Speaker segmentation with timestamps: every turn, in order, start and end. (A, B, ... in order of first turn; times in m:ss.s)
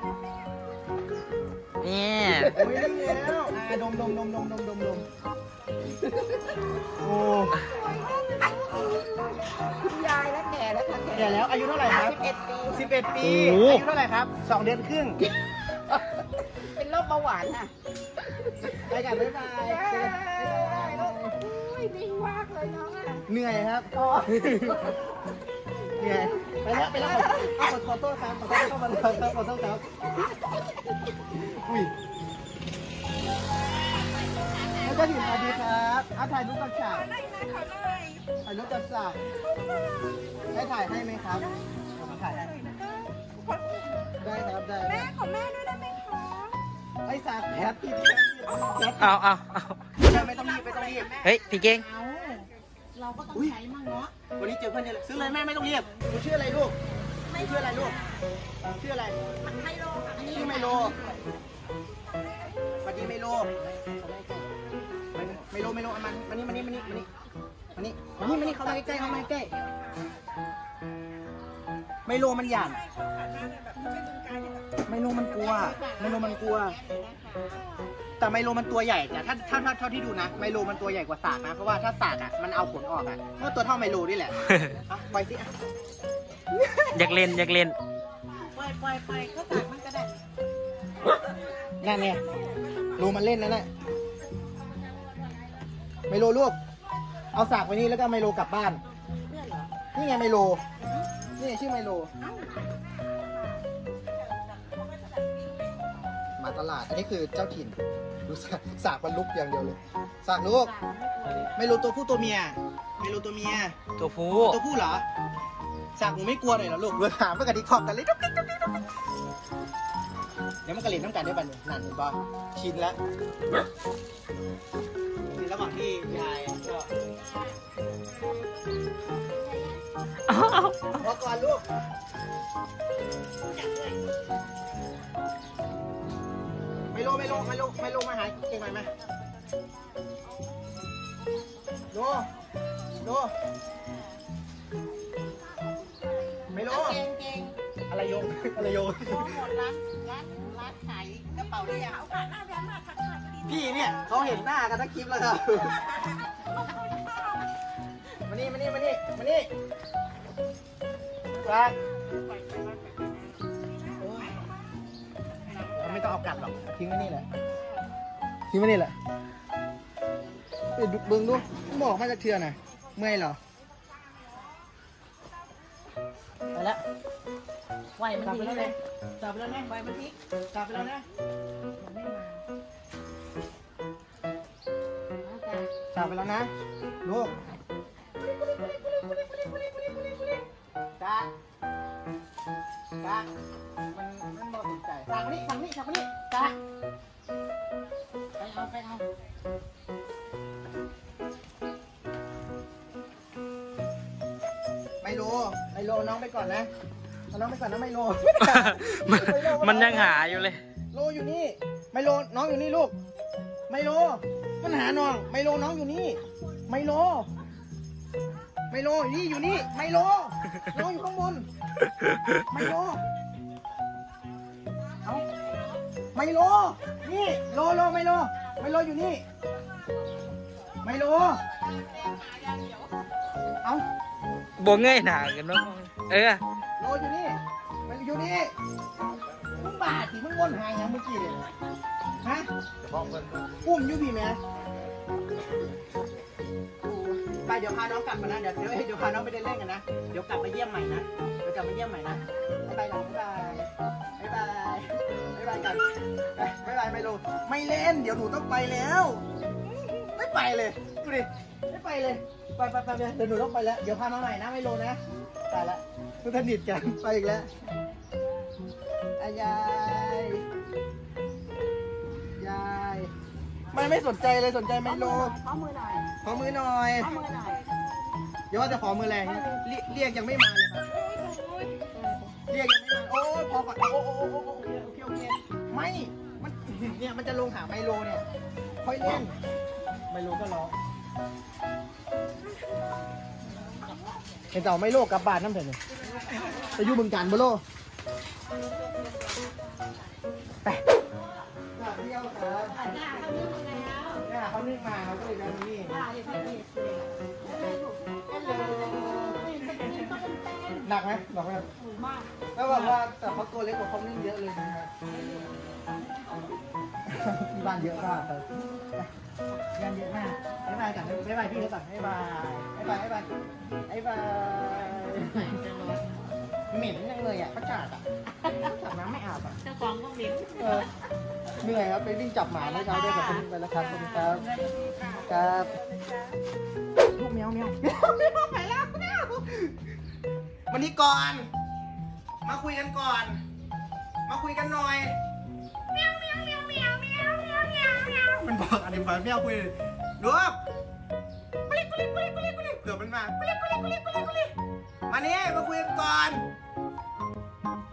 0:01.8-0:02.5 A
0:02.4-0:05.0 B
0:07.0-0:07.6 B
0:09.8-0:12.9 C
0:11.1-0:12.2 B
0:12.7-0:15.3 B
0:13.2-0:13.8 A
0:16.6-0:17.7 C
0:18.8-0:21.4 B
0:19.6-0:23.2 C
0:23.3-0:25.0 B
0:26.0-0:29.8 B
0:27.0-0:27.5 C
0:31.1-0:31.9 B
0:34.2-0:35.6 C
0:34.8-0:37.1 B
0:37.1-0:38.2 C
0:38.4-0:39.2 B
0:40.5-0:42.5 B
0:42.5-0:43.8 C
0:44.2-0:45.1 B
0:45.0-0:46.5 C
0:47.0-0:49.2 B
0:49.0-0:49.8 A
0:50.0-0:51.2 B
0:50.1-0:54.1 C
0:51.2-0:51.8 A
0:54.4-0:56.8 B
0:57.3-0:58.0 C
0:57.3-0:58.0 B
0:58.8-0:59.2 B
0:59.4-1:01.4 C
1:00.2-1:00.9 B
1:02.8-1:04.4 B
1:05.1-1:07.1 B
1:07.7-1:09.5 B
1:08.2-1:09.3 C
1:12.0-1:12.8 B
1:13.2-1:14.6 C
1:14.9-1:16.8 B
1:15.3-1:17.7 C
1:18.2-1:25.5 B
1:26.9-1:27.8 A
1:28.3-1:30.1 C
1:31.8-1:32.2 B
1:32.9-1:33.7 B
1:36.1-1:36.6 B
1:37.3-1:38.8 B
1:39.3-1:39.7 C
1:39.9-1:40.6 B
1:41.4-1:42.1 B
1:42.2-1:42.8 C
1:46.4-1:50.7 B
1:50.6-1:51.6 C
1:51.5-1:53.8 B
1:54.0-1:54.6 A
1:54.3-1:55.0 B
1:56.0-1:58.8 B
2:00.6-2:03.0 B
2:05.4-2:06.9 B
2:10.3-2:10.9 A
2:10.9-2:11.6 B
2:16.9-2:18.9 B
2:21.9-2:22.3 B
2:23.0-2:23.3 B
2:26.5-2:27.0 B
2:26.6-2:27.6 C
2:27.9-2:29.4 B
2:29.0-2:34.2 C
2:33.4-2:35.9 B
2:38.2-2:39.5 B
2:41.4-2:41.7 B
2:42.3-2:43.0 C
2:44.0-2:44.3 B
2:45.7-2:47.2 B
2:48.5-2:48.9 B
2:50.7-2:53.4 B
2:56.5-2:56.8 B
2:58.0-3:00.1 C
2:58.1-2:59.7 B
3:00.5-3:01.0 B
3:01.8-3:02.4 C
3:05.2-3:05.7 C
3:05.9-3:06.5 B
3:07.0-3:07.3 B
3:11.0-3:11.3 B
3:13.0-3:13.3 B
3:13.9-3:16.6 B
3:18.4-3:19.0 C
3:25.0-3:26.7 B
3:27.3-3:30.2 B
3:28.4-3:30.6 A
3:30.9-3:32.9 B
3:33.7-3:37.3 B
3:38.7-3:41.5 B
3:42.3-3:43.0 B
3:46.1-3:49.2 B
3:50.8-3:51.4 B
3:52.0-3:52.8 C
3:54.6-3:56.4 A
3:56.8-3:58.5 B
3:59.5-4:01.4 B
4:02.2-4:02.5 B
4:03.6-4:04.4 B
4:06.8-4:15.8 B
4:16.3-4:19.2 B
4:20.0-4:27.5 B
4:29.2-4:30.4 B
4:32.4-4:33.1 B
4:33.7-4:35.4 B
4:34.8-4:36.1 C
4:36.2-4:37.1 B
4:37.0-4:37.7 C
4:38.5-4:40.9 B
4:39.2-4:39.6 C
4:40.9-4:42.3 C
4:42.5-4:48.2 B
4:48.8-4:49.3 B
4:50.1-4:50.8 B
4:54.5-4:55.8 B
4:56.0-4:56.9 C
4:56.4-4:57.6 B
4:58.8-4:59.6 C
5:01.7-5:02.8 B
5:02.7-5:04.2 C
5:04.2-5:06.0 B
5:05.8-5:10.9 C
5:08.3-5:09.9 B
5:10.8-5:11.7 B
5:11.8-5:13.0 C
5:12.5-5:14.9 B
5:15.1-5:16.5 C
5:17.0-5:19.1 B
5:19.8-5:23.3 B
5:23.9-5:25.6 B
5:25.2-5:26.0 C
5:26.7-5:29.6 B
5:29.6-5:30.9 C
5:30.5-5:30.9 B
5:31.6-5:34.4 B
5:32.6-5:36.4 C
5:35.2-5:35.7 B
5:37.0-5:39.7 B
5:38.3-5:39.1 C
5:40.7-5:41.5 B
5:42.4-5:43.4 B
5:44.3-5:45.2 B
5:46.0-5:48.0 C
5:47.9-5:50.6 B
5:51.7-5:54.5 B
5:55.1-5:56.4 B